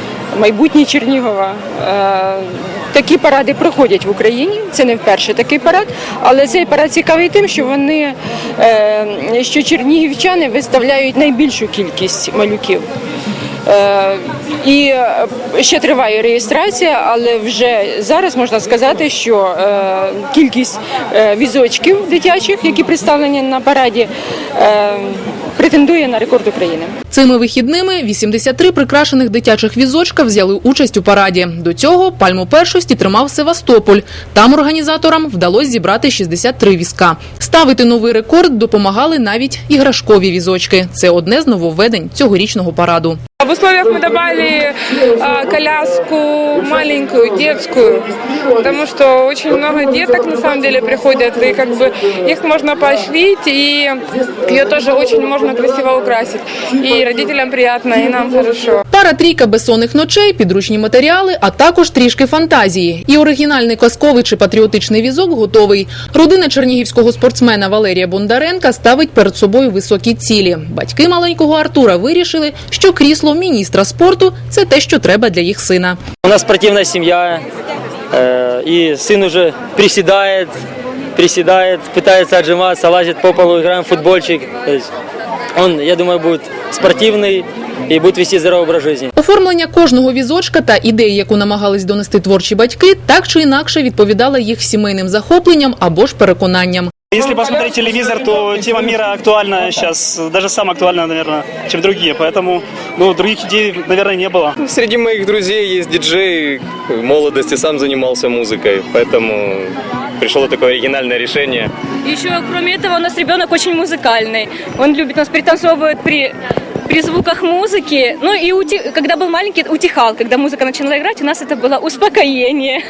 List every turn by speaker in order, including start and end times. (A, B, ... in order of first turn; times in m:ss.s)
0:00.3-0:12.8 A
0:13.6-0:26.9 A
0:27.1-0:43.2 B
0:43.4-0:58.8 C
0:58.9-1:16.0 B
1:16.2-1:17.4 D
1:18.1-1:20.5 D
1:21.2-1:24.9 D
1:25.6-1:29.1 D
1:29.1-1:36.9 B
1:37.1-1:44.6 E
1:44.6-1:51.7 F
1:52.0-1:56.3 G
1:56.8-2:02.8 G